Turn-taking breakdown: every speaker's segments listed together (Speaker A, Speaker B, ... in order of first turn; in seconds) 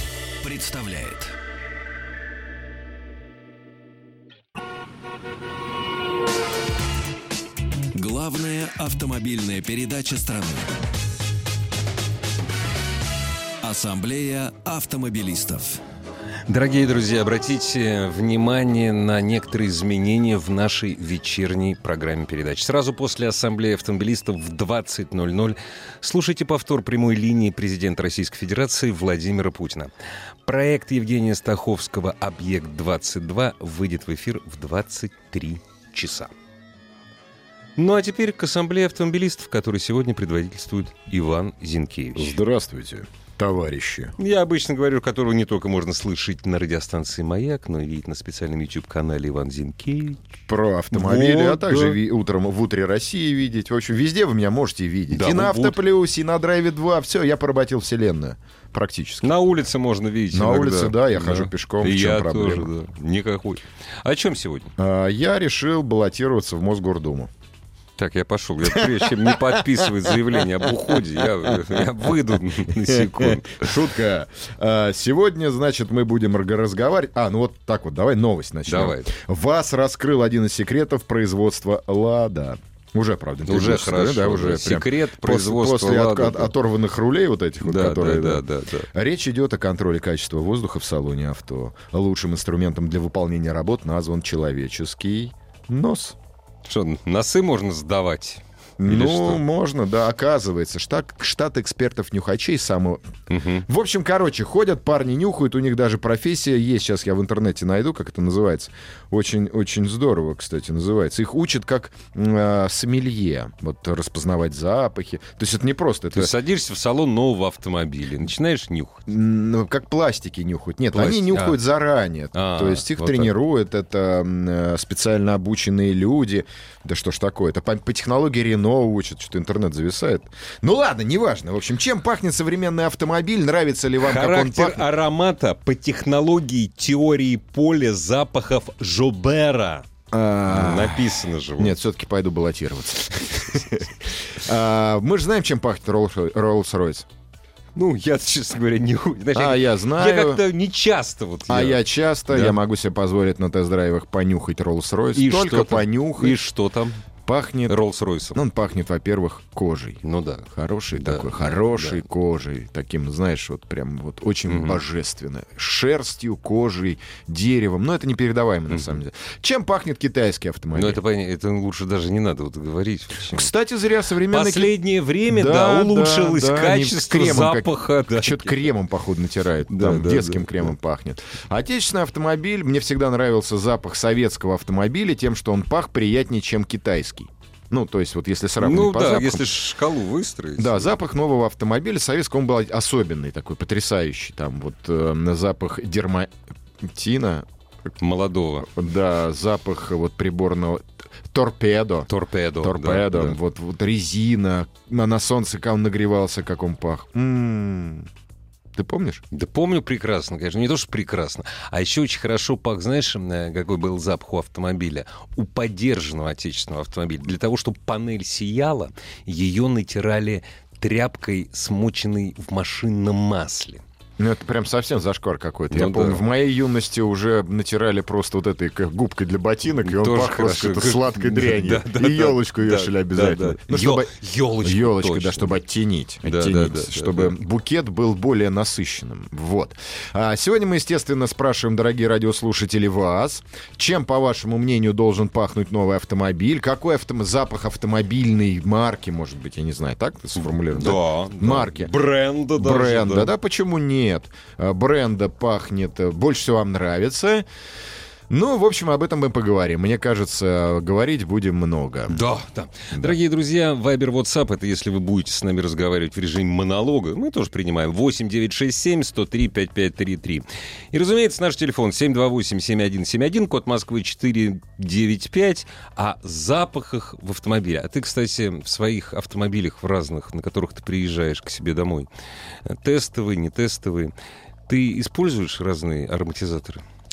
Speaker A: 0.4-1.3, 7.9-10.7, 13.6-15.8
Speaker B: 16.5-29.9, 30.4-36.3, 37.8-42.4, 44.2-50.4, 50.9-52.0, 55.1-55.8, 59.2-64.7, 68.0-73.8, 78.7-79.1, 83.5-86.5, 87.6-88.9, 96.7-99.4, 103.3-103.7, 116.1-119.0, 120.9-121.6, 122.3-123.3, 134.0-139.9, 140.5-141.8, 147.8-152.6, 155.1-157.0, 157.7-158.4, 160.0-162.0, 164.5-164.8, 168.7-169.0, 170.7-173.5, 174.3-178.8, 179.7-180.7, 188.6-190.9, 198.0-198.7, 202.1-203.4, 209.3-223.8, 225.7-226.2, 229.8-235.6, 236.2-237.3, 250.4-253.3, 262.1-282.1, 282.7-284.1, 284.7-286.8
Speaker C: 42.1-44.1, 50.5-59.3, 60.3-62.7, 64.8-67.3, 68.6-72.1, 72.8-96.2, 98.8-103.1, 103.7-116.3, 119.1-134.8, 140.1-147.1, 149.3-150.4, 151.5-156.4, 157.3-157.8, 158.3-160.0, 160.5-171.0, 173.3-174.7, 175.3-189.4, 190.6-197.5, 198.6-202.1, 202.6-208.1, 208.8-209.2, 224.2-234.1, 234.6-251.9, 252.6-257.5, 258.3-262.2